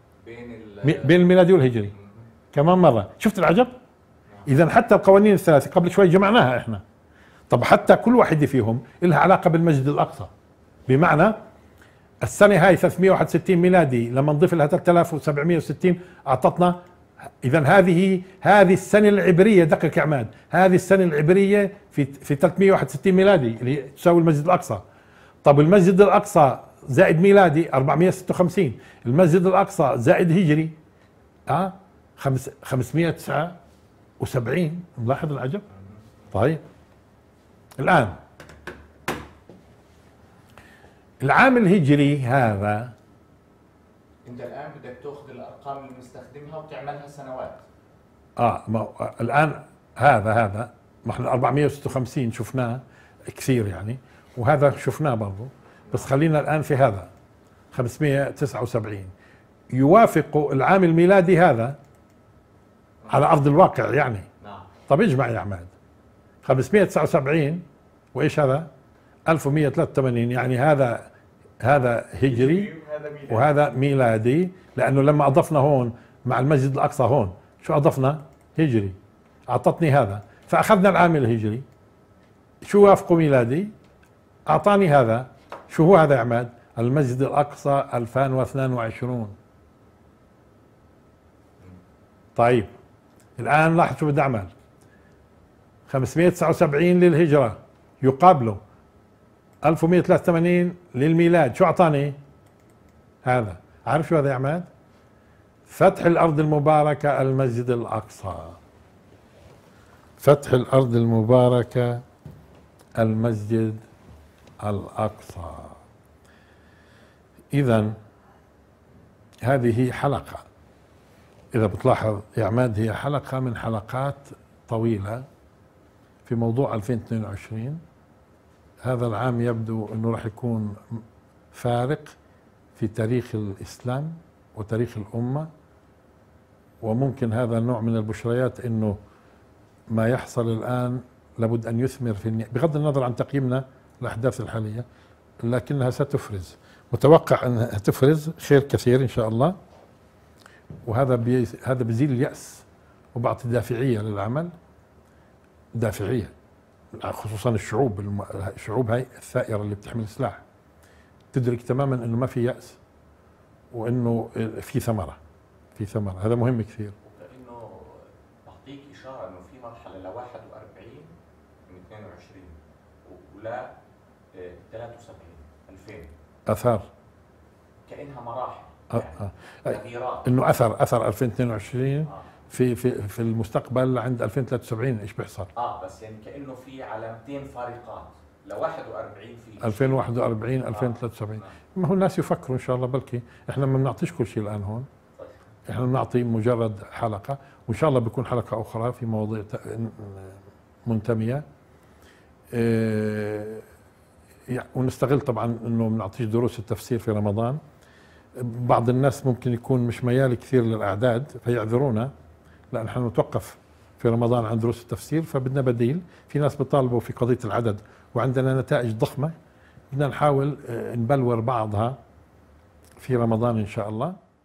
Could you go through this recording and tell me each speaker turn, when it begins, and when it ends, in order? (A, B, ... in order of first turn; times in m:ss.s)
0:00.2-0:01.2 A
0:00.8-0:01.9 B
0:01.9-0:02.3 A
0:02.5-0:03.7 B
0:04.4-0:06.8 B
0:07.5-0:10.3 B
0:10.9-0:11.4 B
0:12.2-0:16.8 B
0:17.4-0:24.8 B
0:25.4-0:30.7 B
0:31.5-0:33.6 B
0:34.2-0:35.6 B
0:35.7-0:36.1 A
0:36.3-0:36.6 B
0:37.8-0:38.2 B
0:41.2-0:42.9 B
0:44.2-0:47.6 A
0:48.4-0:57.1 B
0:55.8-0:56.1 A
0:57.7-0:59.1 B
0:59.7-1:01.8 B
1:03.1-1:04.2 B
1:04.4-1:04.7 A
1:04.9-1:05.7 B
1:06.4-1:08.7 B
1:09.3-1:11.1 B
1:11.6-1:12.7 B
1:12.2-1:13.5 A
1:13.3-1:18.9 B
1:19.5-1:21.6 B
1:22.6-1:23.7 B
1:24.5-1:29.3 B
1:32.4-1:32.7 B
1:33.4-1:34.5 B
1:35.9-1:38.6 B
1:39.6-1:42.2 B
1:43.2-1:44.7 B
1:45.7-1:48.6 B
1:50.2-1:52.0 B
1:53.0-1:53.8 B
1:54.6-1:55.8 B
1:57.5-1:58.0 B
1:59.4-2:00.4 B
2:01.5-2:05.2 B
2:06.2-2:07.8 B
2:08.8-2:12.2 B
2:12.8-2:15.5 B
2:16.8-2:19.0 B
2:19.9-2:24.8 B
2:25.4-2:29.5 B
2:30.8-2:34.5 B
2:35.7-2:36.3 B
2:36.9-2:40.4 B
2:41.3-2:42.8 B
2:43.7-2:45.2 B
2:45.7-2:46.9 B
2:47.0-2:51.1 A
2:51.7-2:53.7 A
2:54.3-2:56.1 A
2:56.5-2:56.8 B
2:57.9-3:00.3 A
2:58.9-3:05.5 B
3:05.5-3:11.5 A
3:09.6-3:14.9 B
3:15.7-3:21.4 B
3:22.5-3:23.6 B
3:24.5-3:27.6 B
3:28.4-3:32.1 B
3:32.7-3:39.3 B
3:39.9-3:42.0 B
3:43.0-3:44.2 B